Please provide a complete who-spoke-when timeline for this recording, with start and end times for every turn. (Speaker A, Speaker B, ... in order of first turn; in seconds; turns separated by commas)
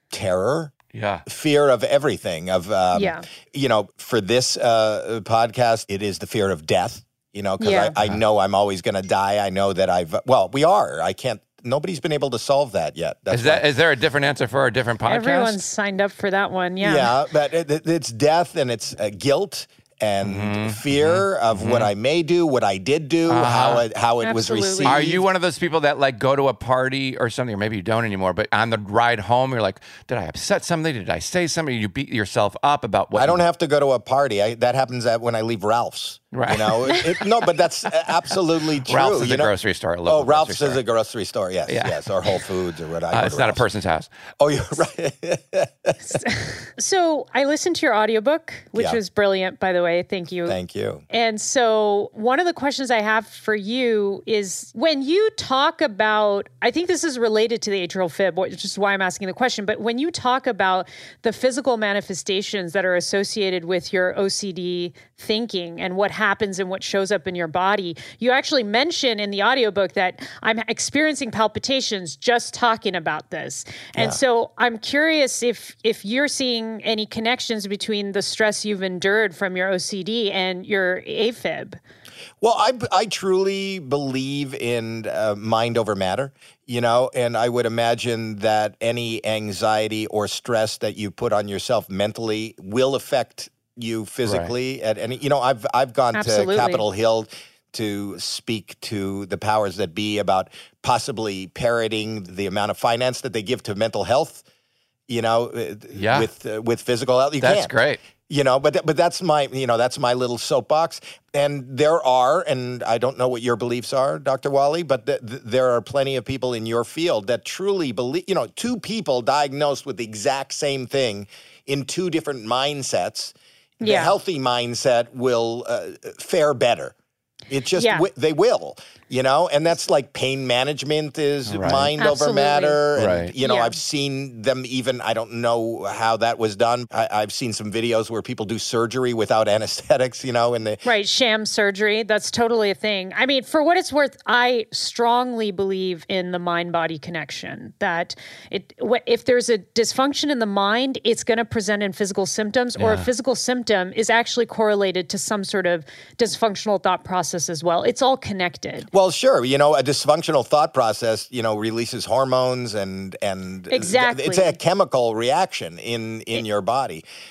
Speaker A: 0.1-0.7, Speaker B: 0.9-1.2, Speaker A: 1.2-13.6, Speaker C: 2.9-3.2, Speaker C: 7.6-7.9, Speaker B: 13.3-15.6, Speaker C: 15.1-17.1, Speaker A: 16.8-25.2, Speaker B: 20.2-21.9, Speaker B: 23.3-23.9, Speaker C: 24.2-25.0, Speaker B: 24.8-33.4, Speaker A: 33.1-39.5, Speaker B: 36.3-37.1, Speaker B: 38.9-40.8, Speaker A: 40.1-43.6, Speaker B: 41.7-42.0, Speaker B: 43.1-44.1, Speaker A: 44.4-46.2, Speaker C: 46.2-50.6, Speaker A: 50.5-51.0, Speaker C: 51.1-81.8, Speaker A: 73.9-74.2, Speaker A: 82.4-104.4, Speaker B: 94.2-94.5, Speaker C: 96.1-96.8, Speaker A: 105.1-107.8, Speaker B: 105.9-106.3, Speaker B: 107.4-108.0, Speaker A: 108.3-126.9, Speaker C: 123.8-124.1, Speaker A: 127.5-140.8, Speaker C: 127.7-128.1, Speaker B: 131.4-131.9, Speaker C: 132.0-132.8, Speaker B: 132.9-133.3, Speaker C: 133.4-133.7, Speaker C: 140.8-158.9, Speaker B: 152.8-153.1, Speaker A: 158.9-167.0, Speaker C: 163.7-164.6